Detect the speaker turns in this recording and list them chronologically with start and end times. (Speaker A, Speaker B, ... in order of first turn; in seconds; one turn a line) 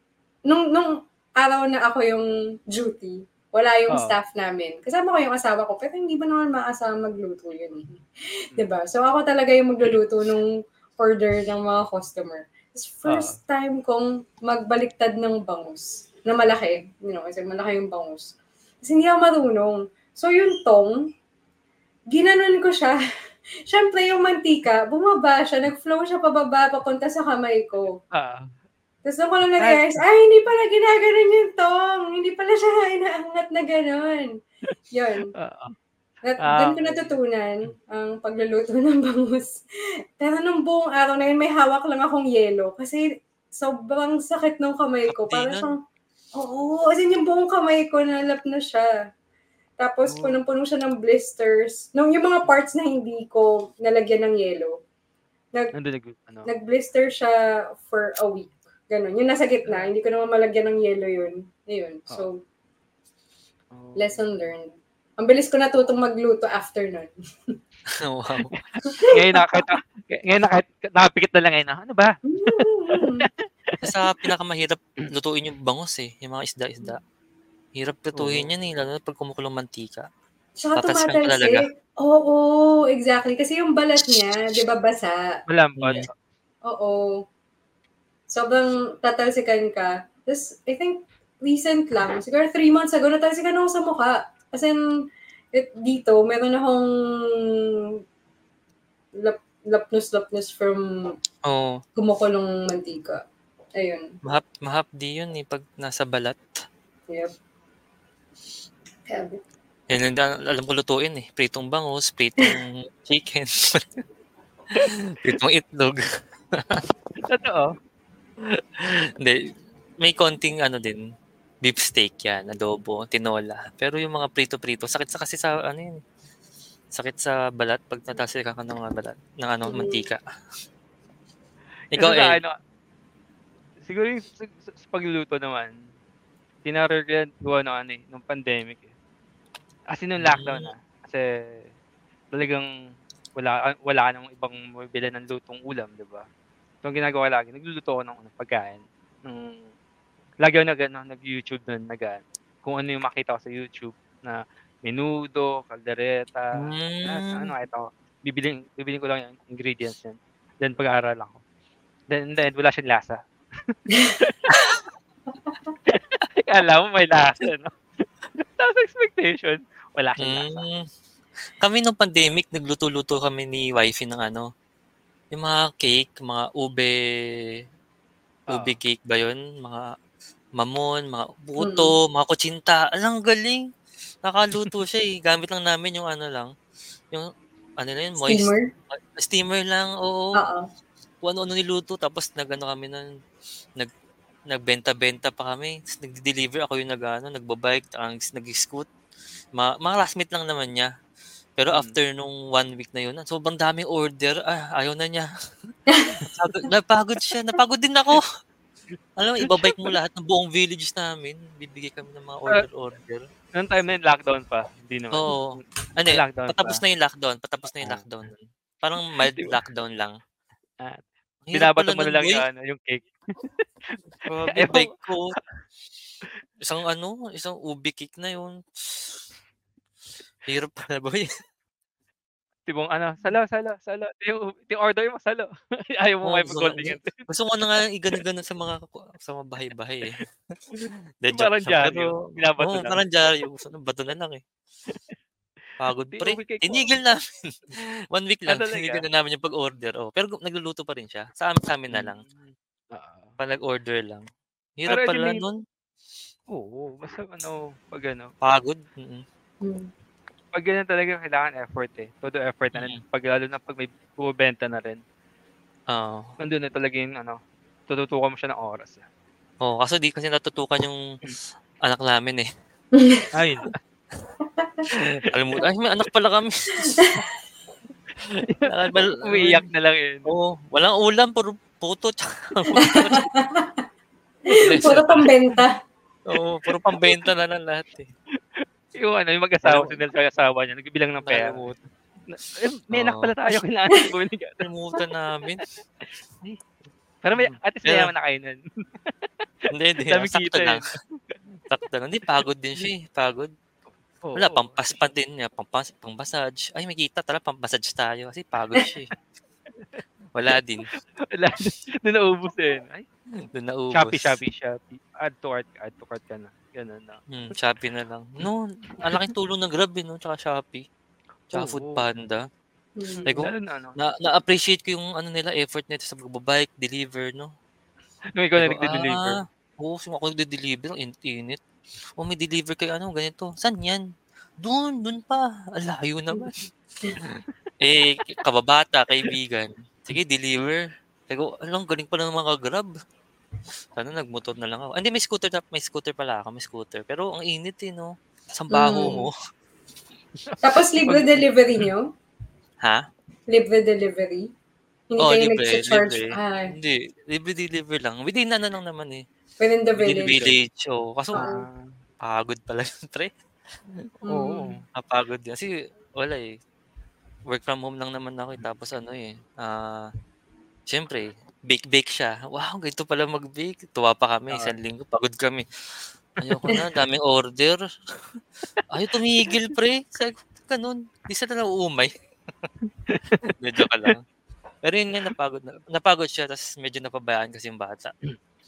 Speaker A: 0.5-8.0
Speaker B: 3.9-4.2
Speaker A: 8.5-21.0
Speaker B: 13.1-13.3
Speaker A: 22.1-22.9
Speaker A: 23.6-28.0
Speaker B: 28.1-28.5
Speaker A: 29.0-34.3
Speaker B: 29.6-30.0
Speaker A: 34.9-35.3
Speaker B: 35.3-35.7
Speaker A: 36.2-39.6
Speaker B: 36.4-37.2
Speaker A: 40.2-43.0
Speaker A: 43.5-45.8
Speaker C: 45.1-45.7
Speaker A: 46.3-48.9
Speaker A: 49.8-54.7
Speaker B: 50.0-50.4
Speaker B: 55.7-56.5
Speaker A: 56.5-62.4
Speaker B: 63.7-64.3
Speaker A: 64.0-67.6
Speaker C: 68.0-68.5
Speaker A: 68.8-69.7
Speaker B: 69.1-73.9
Speaker A: 72.3-73.3
Speaker C: 73.8-77.0
Speaker C: 77.8-80.1
Speaker B: 78.1-78.5
Speaker A: 80.6-85.2
Speaker C: 80.8-81.7
Speaker B: 85.5-86.1
Speaker C: 85.8-86.1
Speaker A: 86.7-87.2
Speaker A: 88.3-94.8
Speaker A: 95.5-98.0
Speaker A: 99.2-101.2
Speaker C: 101.5-101.8
Speaker A: 102.0-103.2
Speaker A: 103.8-104.1
Speaker C: 104.2-106.6
Speaker A: 107.1-107.3
Speaker A: 109.1-109.4
Speaker C: 109.9-114.0
Speaker C: 115.1-116.0
Speaker C: 116.5-116.8
Speaker B: 117.3-117.7
Speaker C: 118.5-119.4
Speaker C: 120.0-121.0
Speaker C: 121.6-126.0
Speaker C: 126.9-130.2
Speaker A: 129.7-130.1
Speaker C: 131.9-132.4
Speaker B: 131.9-132.5
Speaker B: 133.8-135.7
Speaker B: 136.6-138.9
Speaker B: 139.9-141.6
Speaker C: 140.2-140.7
Speaker B: 142.3-142.7
Speaker B: 143.3-146.2
Speaker B: 146.8-149.7
Speaker B: 150.4-161.4
Speaker C: 156.6-157.5
Speaker B: 162.1-164.4
Speaker C: 164.5-164.8
Speaker B: 165.9-170.7
Speaker C: 170.2-170.8
Speaker C: 171.6-174.5
Speaker C: 175.3-177.5
Speaker B: 178.5-178.8
Speaker C: 178.5-179.8
Speaker C: 180.6-183.7
Speaker A: 181.6-181.9
Speaker C: 184.2-186.5
Speaker C: 187.8-190.3
Speaker A: 188.2-188.7
Speaker A: 190.3-190.6
Speaker C: 191.2-193.1
Speaker C: 194.5-198.9
Speaker C: 199.6-200.9
Speaker C: 201.6-208.2
Speaker B: 201.7-201.9
Speaker A: 205.9-206.2
Speaker C: 209.2-213.3
Speaker B: 209.5-209.9
Speaker B: 213.5-216.8
Speaker C: 215.1-220.2
Speaker B: 217.7-218.0
Speaker B: 219.3-219.6
Speaker C: 221.4-222.4
Speaker B: 221.5-224.9
Speaker C: 224.2-225.3
Speaker C: 226.6-229.2
Speaker C: 230.5-231.3
Speaker B: 232.7-237.2
Speaker C: 236.2-240.2
Speaker B: 240.8-243.0
Speaker C: 241.2-244.4
Speaker C: 245.8-252.2
Speaker B: 246.1-246.9
Speaker B: 248.5-249.0
Speaker B: 251.9-253.3
Speaker C: 253.4-254.2
Speaker C: 254.8-255.6
Speaker B: 254.9-255.4
Speaker B: 256.5-258.3
Speaker C: 258.4-259.2
Speaker A: 259.6-259.9
Speaker B: 260.5-265.0
Speaker C: 262.7-263.0
Speaker C: 265.9-266.3
Speaker B: 266.4-267.4
Speaker B: 267.9-269.0
Speaker C: 269.6-271.0
Speaker C: 271.8-272.4
Speaker A: 272.9-273.3
Speaker B: 273.3-273.7
Speaker A: 274.6-274.9
Speaker C: 274.9-277.1
Speaker A: 277.0-277.2
Speaker B: 278.5-280.3
Speaker C: 278.6-279.6
Speaker C: 280.3-283.2
Speaker B: 282.7-283.2
Speaker A: 282.8-283.8
Speaker A: 284.5-285.7
Speaker C: 284.6-285.3
Speaker C: 286.3-288.1
Speaker B: 288.6-291.6
Speaker C: 289.6-290.0
Speaker C: 291.2-291.8
Speaker B: 292.3-294.7
Speaker C: 292.9-293.6
Speaker C: 294.6-295.6
Speaker B: 297.2-298.6
Speaker C: 297.4-298.1
Speaker C: 299.7-300.9
Speaker B: 300.1-301.4
Speaker C: 301.7-303.5
Speaker B: 304.2-304.8
Speaker C: 304.3-309.1
Speaker C: 310.3-310.9
Speaker B: 311.2-313.0
Speaker C: 313.5-314.4
Speaker B: 313.9-317.2
Speaker C: 317.3-320.9
Speaker B: 321.5-322.1
Speaker C: 321.5-322.4
Speaker A: 323.0-323.3
Speaker B: 323.2-324.0
Speaker C: 323.3-327.5
Speaker B: 328.4-329.4
Speaker C: 328.6-331.6
Speaker C: 332.2-334.0
Speaker C: 334.6-336.6
Speaker C: 337.8-342.9
Speaker C: 343.9-349.3
Speaker A: 348.7-349.2
Speaker B: 350.4-351.4
Speaker A: 350.6-352.1
Speaker A: 353.5-354.5
Speaker A: 355.1-356.7
Speaker C: 355.2-359.2
Speaker A: 359.6-360.5
Speaker C: 360.0-361.5
Speaker B: 361.3-361.9
Speaker A: 361.3-361.6
Speaker C: 362.2-363.3
Speaker A: 364.2-364.7
Speaker B: 364.3-364.8
Speaker C: 364.9-366.6
Speaker C: 367.5-370.1
Speaker C: 370.9-377.8
Speaker B: 374.5-374.7
Speaker B: 376.4-376.7
Speaker C: 378.3-382.1
Speaker B: 382.9-383.4
Speaker C: 383.4-384.2
Speaker C: 384.8-388.1